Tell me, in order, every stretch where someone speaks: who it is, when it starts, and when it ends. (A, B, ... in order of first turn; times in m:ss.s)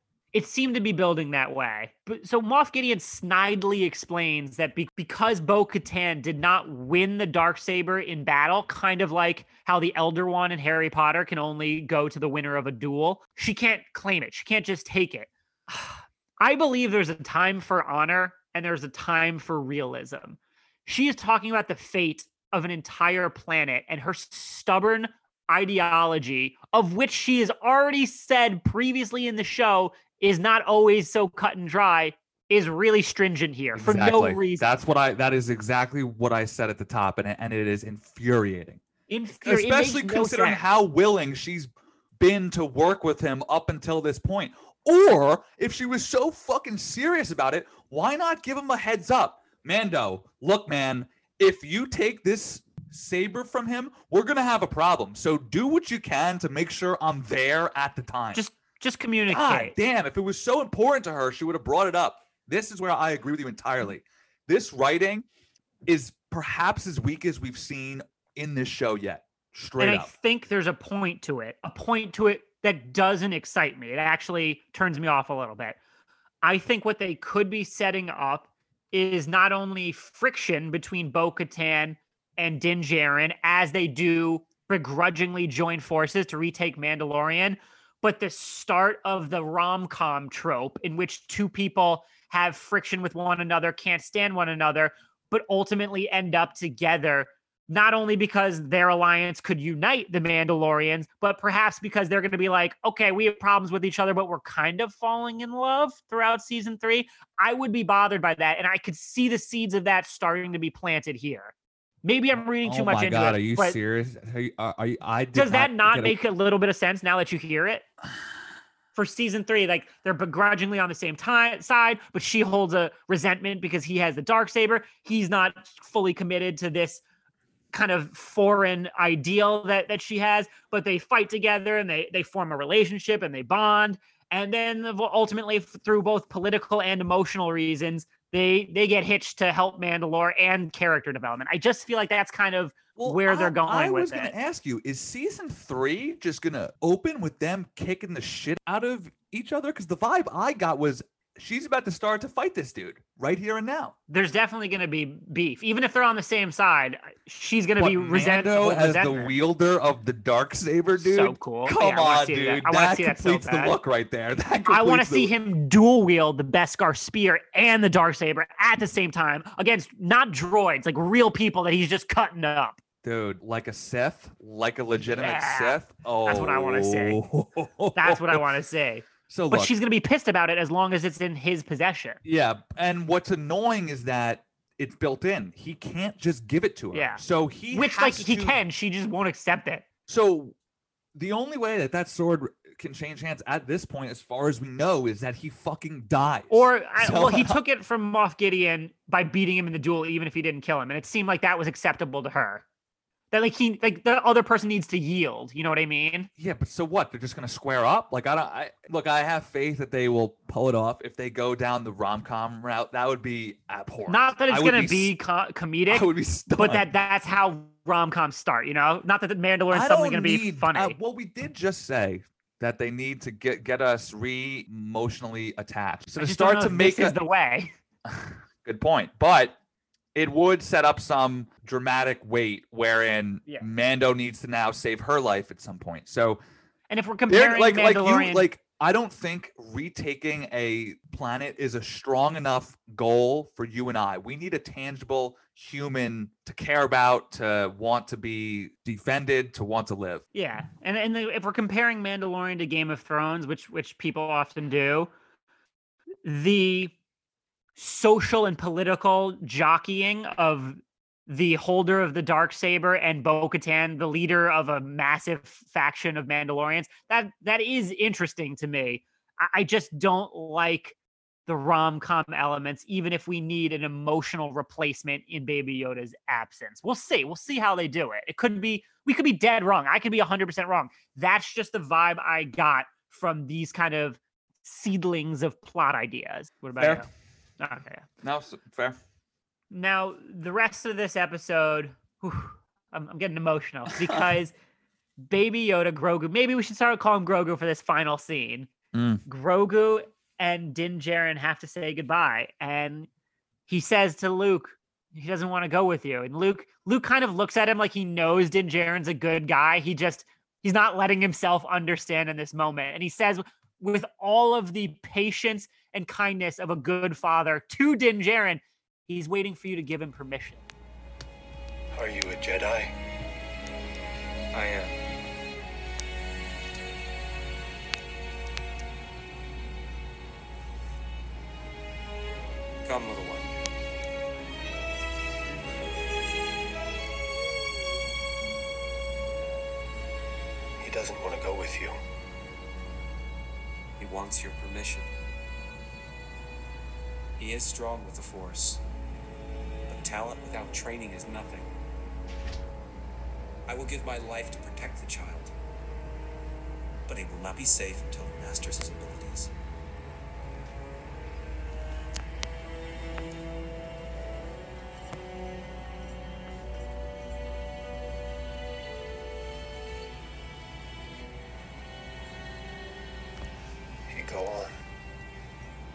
0:00.3-0:34.6 A
0:33.7-0:38.8 B
0:39.1-0:40.6 A
0:39.4-0:58.4 B
0:58.3-0:59.7 A
0:59.3-1:05.2 B
1:05.8-1:10.1 B
1:09.8-1:15.8 A
1:16.4-1:51.5 A
1:52.0-1:53.8 A
1:52.3-1:56.2 B
1:55.3-1:57.8 A
1:58.9-2:07.0 A
2:07.7-2:24.3 A
2:23.0-2:33.9 B
2:34.1-2:39.3 A
2:37.8-2:45.3 B
2:41.0-2:43.7 A
2:44.7-2:52.8 A
2:53.0-2:58.5 B
2:55.2-2:57.2 A
2:58.0-3:02.2 A
2:59.3-2:59.7 B
3:02.2-3:08.6 B
3:06.9-3:07.2 A
3:07.7-3:09.8 A
3:10.1-3:10.5 B
3:11.1-3:17.6 B
3:16.5-3:22.6 A
3:23.3-3:26.3 A
3:26.4-3:35.1 B
3:34.1-3:41.0 A
3:35.9-3:36.9 B
3:39.7-3:47.2 B
3:46.2-3:47.7 A
3:48.0-3:49.6 B
3:50.1-3:56.4 B
3:56.9-3:58.5 A
3:57.3-4:10.2 B
4:10.3-4:15.1 A
4:16.2-4:16.9 A
4:17.8-4:30.9 A
4:31.5-4:47.1 A
4:46.8-4:47.0 B
4:47.6-4:48.0 A
4:48.2-4:49.0 B
4:49.7-4:54.5 A
4:55.2-4:58.7 A
4:58.9-4:59.2 B
4:59.2-5:03.1 A
5:03.7-5:20.6 A
5:21.9-5:22.9 C
5:24.5-5:24.9 D
5:32.8-5:33.5 D
5:40.8-5:42.0 C
5:44.0-5:45.1 D
5:47.4-5:48.8 D
5:49.9-5:51.7 D
5:53.7-5:55.5 D
5:57.1-5:59.5 D
6:14.1-6:14.7 C